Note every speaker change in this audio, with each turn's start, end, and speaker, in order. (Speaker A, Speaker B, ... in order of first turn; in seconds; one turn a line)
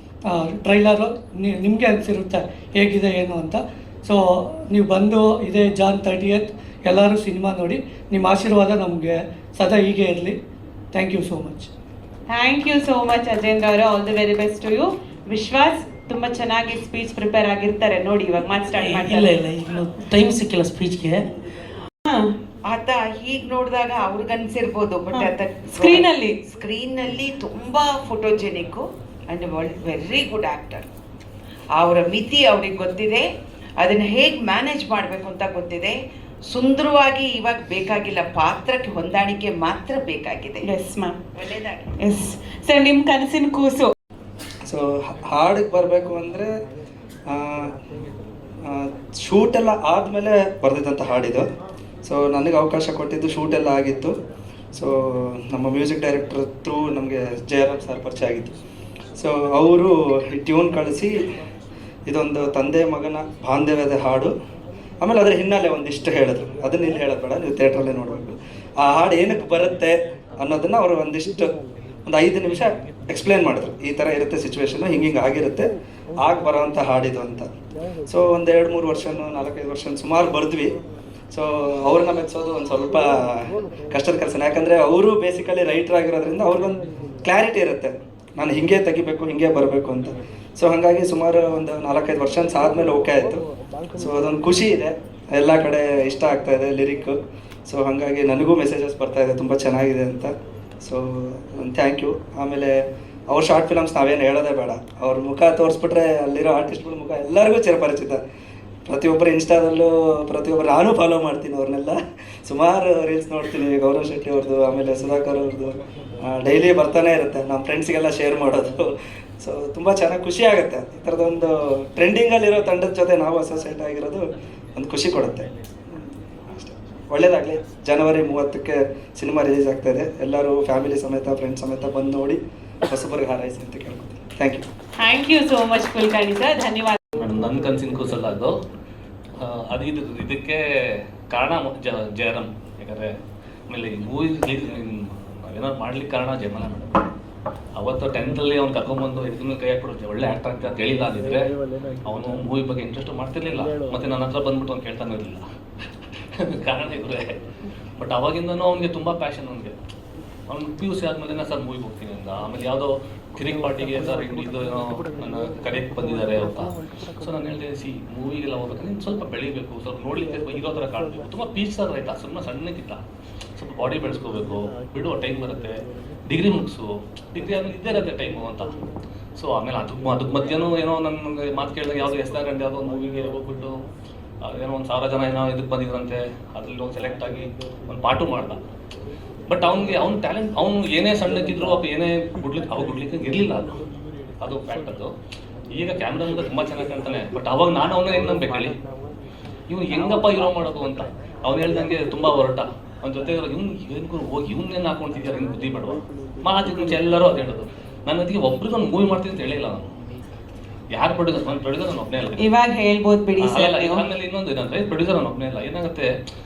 Speaker A: 0.3-10.4
Speaker A: 10.9-11.7
Speaker B: 12.3-19.3
Speaker C: 18.7-21.2
Speaker D: 22.6-30.8
Speaker B: 25.8-26.3
Speaker D: 31.7-40.7
Speaker B: 40.7-41.1
Speaker D: 41.4-41.9
Speaker B: 42.0-43.9
Speaker E: 44.6-46.5
Speaker E: 47.3-47.7
Speaker E: 48.6-51.4
Speaker E: 52.0-54.1
Speaker E: 54.7-58.5
Speaker E: 59.2-61.1
Speaker E: 62.1-64.3
Speaker E: 65.0-71.5
Speaker E: 72.1-77.5
Speaker E: 78.1-80.8
Speaker E: 81.3-93.4
Speaker E: 94.0-108.2
Speaker E: 108.8-134.6
Speaker B: 135.0-137.0
Speaker F: 137.2-138.6
Speaker F: 139.4-140.6
Speaker F: 141.3-143.1
Speaker F: 143.7-146.9
Speaker F: 147.8-151.5
Speaker F: 152.1-155.4
Speaker F: 156.4-157.3
Speaker F: 158.0-159.7
Speaker F: 160.5-166.7
Speaker F: 167.2-173.0
Speaker F: 173.6-178.7
Speaker F: 179.4-183.8
Speaker F: 184.4-188.6
Speaker F: 189.5-193.7
Speaker F: 194.4-195.1
Speaker F: 195.7-198.7
Speaker F: 199.7-209.9
Speaker F: 210.9-212.4
Speaker B: 212.4-214.0
Speaker F: 213.4-216.1